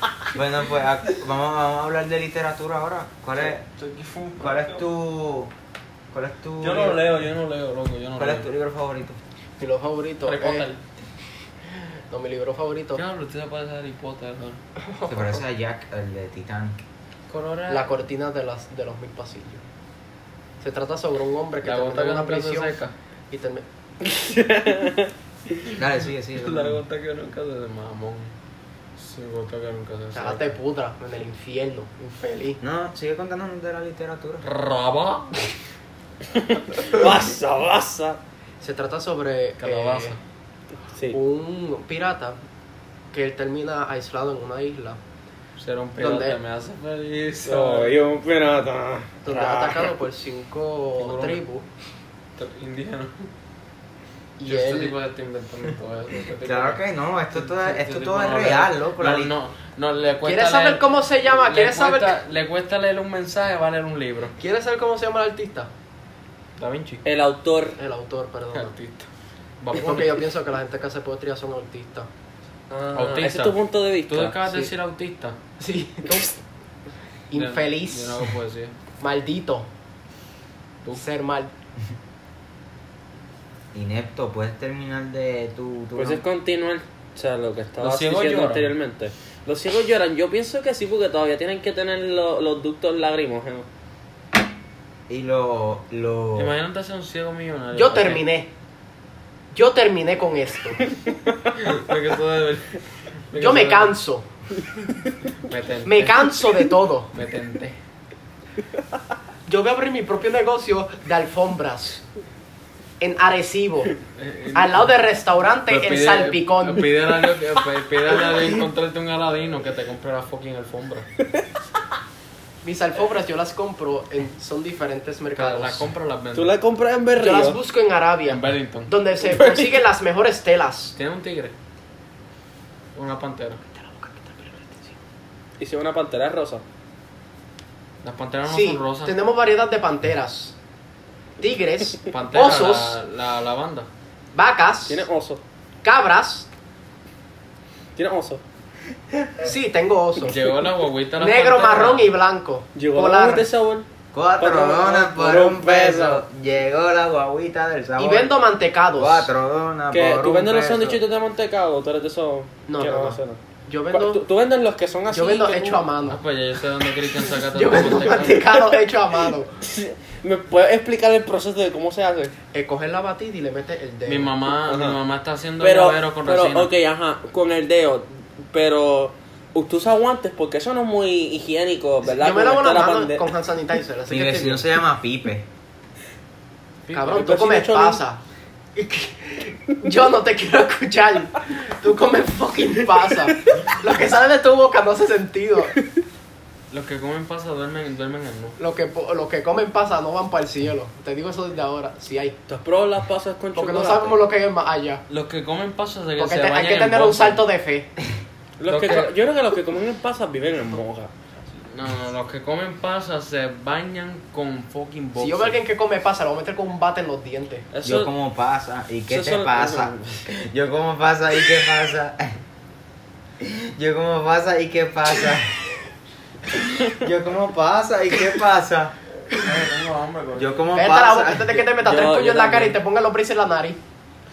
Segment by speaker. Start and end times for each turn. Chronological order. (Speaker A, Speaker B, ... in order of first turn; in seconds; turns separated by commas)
Speaker A: 0.3-3.6, Speaker B: 3.4-4.8, Speaker A: 4.4-5.5, Speaker A: 6.1-7.1, Speaker B: 6.6-8.4, Speaker A: 8.2-9.2, Speaker C: 9.6-10.7, Speaker B: 10.2-10.8, Speaker C: 11.7-13.0, Speaker B: 12.9-14.6, Speaker C: 14.8-15.4, Speaker A: 15.0-16.8, Speaker B: 17.3-17.9, Speaker C: 17.7-19.6, Speaker C: 20.6-22.8, Speaker B: 21.6-22.9, Speaker C: 23.3-23.6, Speaker D: 24.0-25.1, Speaker A: 25.8-26.8, Speaker B: 26.4-28.3, Speaker B: 29.0-30.5, Speaker C: 30.1-32.6, Speaker A: 32.6-34.4, Speaker B: 34.4-35.5, Speaker D: 36.4-38.2, Speaker C: 38.6-40.2, Speaker B: 39.6-40.2, Speaker C: 41.1-42.4, Speaker C: 43.1-45.0, Speaker B: 45.6-47.9, Speaker C: 46.0-46.4, Speaker D: 47.4-49.9, Speaker C: 49.2-51.6, Speaker B: 51.0-51.4, Speaker B: 52.4-53.3, Speaker C: 54.4-55.0, Speaker B: 54.5-56.8, Speaker A: 56.4-59.3, Speaker B: 57.3-64.3, Speaker C: 60.2-62.2, Speaker C: 64.4-65.7, Speaker B: 66.6-67.0, Speaker D: 67.0-67.8, Speaker C: 67.8-68.7, Speaker B: 68.5-69.1, Speaker B: 69.6-70.2, Speaker C: 69.7-72.1, Speaker D: 72.7-74.7, Speaker B: 72.9-75.4, Speaker C: 75.6-76.4, Speaker C: 77.3-78.2, Speaker B: 77.3-78.8, Speaker C: 79.0-79.7, Speaker C: 80.9-81.5, Speaker A: 83.7-86.2, Speaker D: 86.0-93.7, Speaker B: 87.8-88.7, Speaker A: 95.1-96.5, Speaker B: 96.3-98.2, Speaker C: 97.7-98.5, Speaker C: 99.5-100.8, Speaker B: 101.6-102.8, Speaker B: 103.3-103.9, Speaker C: 103.3-104.3, Speaker B: 105.4-106.4, Speaker C: 105.8-107.1, Speaker B: 107.1-107.8, Speaker C: 109.5-112.0, Speaker C: 113.0-114.0, Speaker B: 114.2-114.9, Speaker C: 114.5-116.9, Speaker B: 115.7-121.0, Speaker D: 118.2-118.5, Speaker C: 122.6-125.9, Speaker B: 125.3-126.5, Speaker D: 126.3-127.6, Speaker C: 127.2-130.9, Speaker B: 128.2-128.9, Speaker D: 129.2-129.8, Speaker B: 130.9-131.5, Speaker B: 132.9-133.6, Speaker C: 133.7-134.9, Speaker D: 135.6-136.6, Speaker B: 138.0-139.2, Speaker C: 138.5-140.6, Speaker C: 141.4-143.0, Speaker B: 142.1-143.9, Speaker C: 144.3-145.0, Speaker D: 144.9-145.4, Speaker C: 145.8-146.5, Speaker D: 147.9-148.4, Speaker C: 149.4-150.4, Speaker B: 150.2-152.1, Speaker C: 151.2-153.5, Speaker D: 152.7-153.9, Speaker A: 154.1-158.4, Speaker D: 154.4-156.2, Speaker C: 158.0-159.3, Speaker A: 158.9-161.0, Speaker D: 159.9-163.4, Speaker C: 162.7-164.2, Speaker D: 163.9-165.9, Speaker C: 165.1-166.2, Speaker B: 166.1-168.5, Speaker C: 167.5-169.5, Speaker D: 169.6-172.3, Speaker C: 172.5-174.3, Speaker B: 174.1-176.7, Speaker D: 174.7-175.0, Speaker D: 175.6-183.2, Speaker C: 182.0-184.6, Speaker A: 184.1-185.4, Speaker B: 186.8-187.2, Speaker C: 186.9-188.2, Speaker D: 187.1-188.0, Speaker C: 188.8-195.8, Speaker B: 196.7-198.6, Speaker C: 198.6-202.3, Speaker D: 202.5-204.2, Speaker C: 203.5-205.0, Speaker B: 205.1-207.4, Speaker C: 206.2-207.9, Speaker D: 208.6-211.1, Speaker B: 208.6-209.1, Speaker B: 211.6-215.6, Speaker C: 215.2-217.7, Speaker D: 217.7-218.1, Speaker A: 217.8-222.4, Speaker D: 219.1-220.3, Speaker A: 223.4-225.6, Speaker A: 226.5-228.9, Speaker B: 229.4-230.7, Speaker A: 230.3-231.6, Speaker C: 230.7-233.8, Speaker D: 231.8-232.8